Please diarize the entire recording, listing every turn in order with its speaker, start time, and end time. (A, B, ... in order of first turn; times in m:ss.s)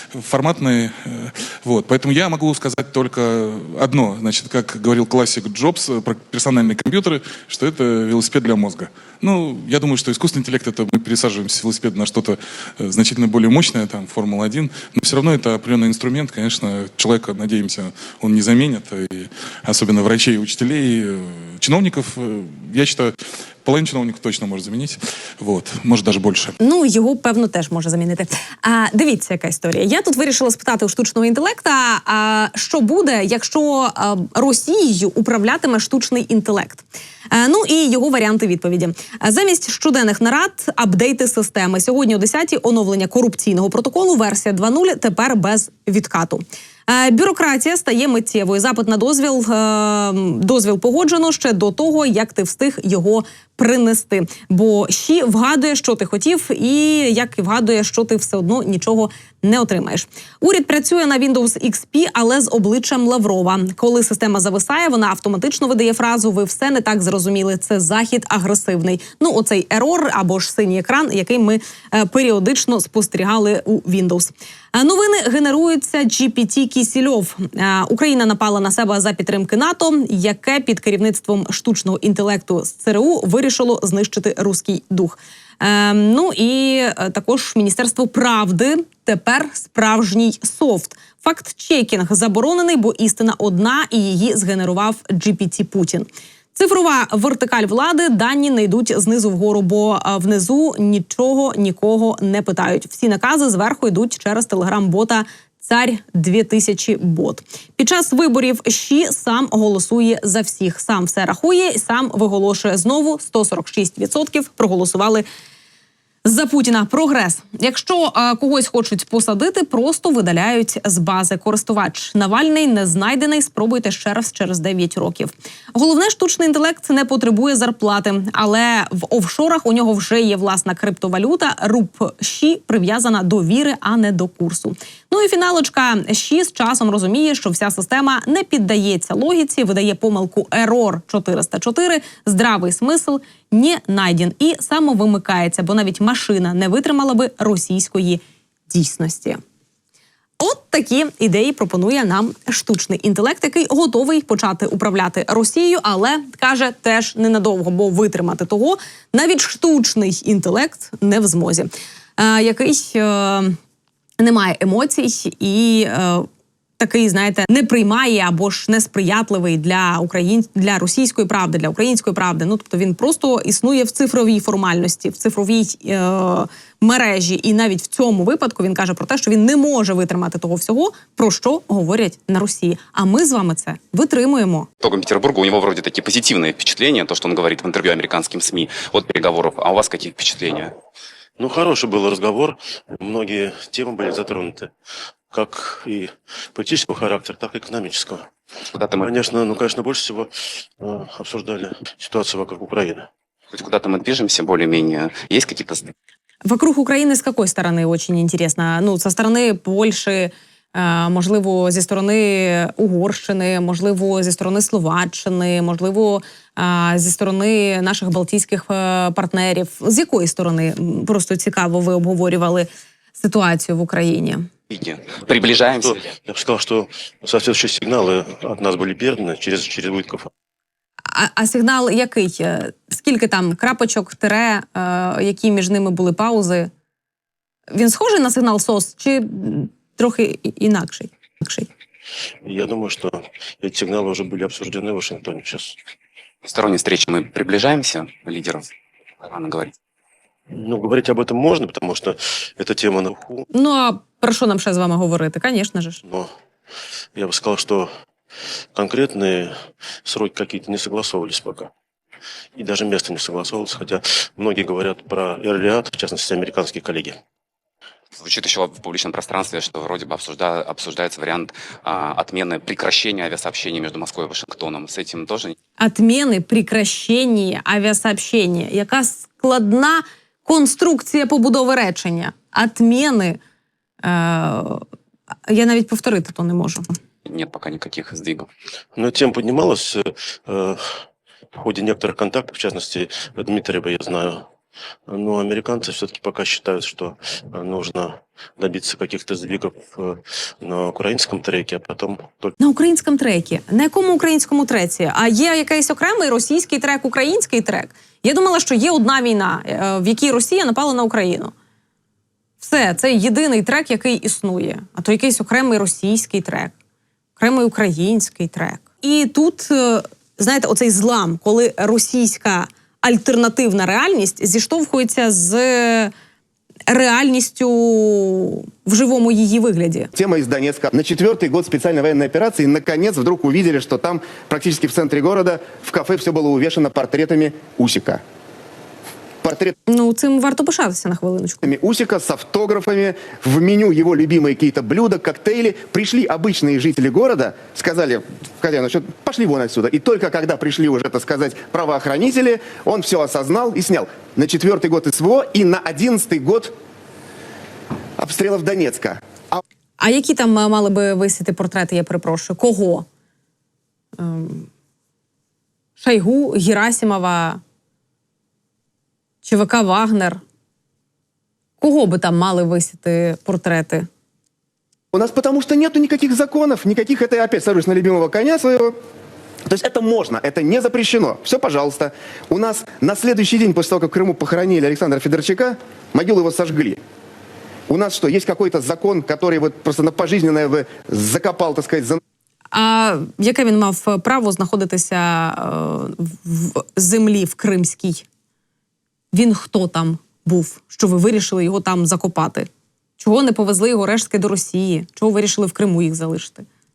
0:00.2-0:26.5 A
0:26.6-1:55.2 B
1:56.2-2:29.4 B
2:30.4-2:43.6 B
2:44.2-2:46.3 B
2:46.8-3:04.7 B
3:04.8-3:10.7 C
3:11.4-3:14.7 D
3:15.3-3:18.3 D
3:18.7-3:19.1 C
3:19.0-3:23.1 D
3:23.5-3:25.9 C
3:26.4-3:44.5 B
3:44.7-3:46.0 C
3:45.3-3:50.3 D
3:51.1-3:56.7 B
3:57.7-4:01.7 B
4:02.4-4:05.8 D
4:06.4-4:08.7 C
4:09.2-4:09.7 C
4:10.5-4:13.5 D
4:13.5-4:16.0 B
4:16.1-4:16.3 D
4:17.2-4:17.9 D
4:18.8-4:21.7 D
4:22.6-4:27.2 D
4:28.1-4:35.6 C
4:35.8-4:43.4 B
4:44.0-4:44.8 B
4:45.5-4:46.9 B
4:47.3-4:48.5 C
4:49.0-4:51.0 D
4:51.6-4:54.5 D
4:55.1-5:02.6 D
5:02.6-5:11.5 B
5:12.6-5:16.7 B
5:17.4-5:26.1 B
5:26.9-5:30.1 B
5:30.1-5:38.2 E
5:39.4-5:39.8 E
5:39.9-5:41.7 B
5:41.6-5:56.7 E
5:58.2-5:59.6 E
6:00.0-6:03.1 B
6:04.2-6:04.7 B
6:06.0-6:07.6 B
6:09.4-6:10.4 B
6:11.8-6:14.1 B
6:15.1-6:19.0 E
6:19.7-6:27.0 E
6:27.9-6:32.2 E
6:32.7-6:38.2 B
6:39.3-6:42.7 B
6:43.2-6:46.6 B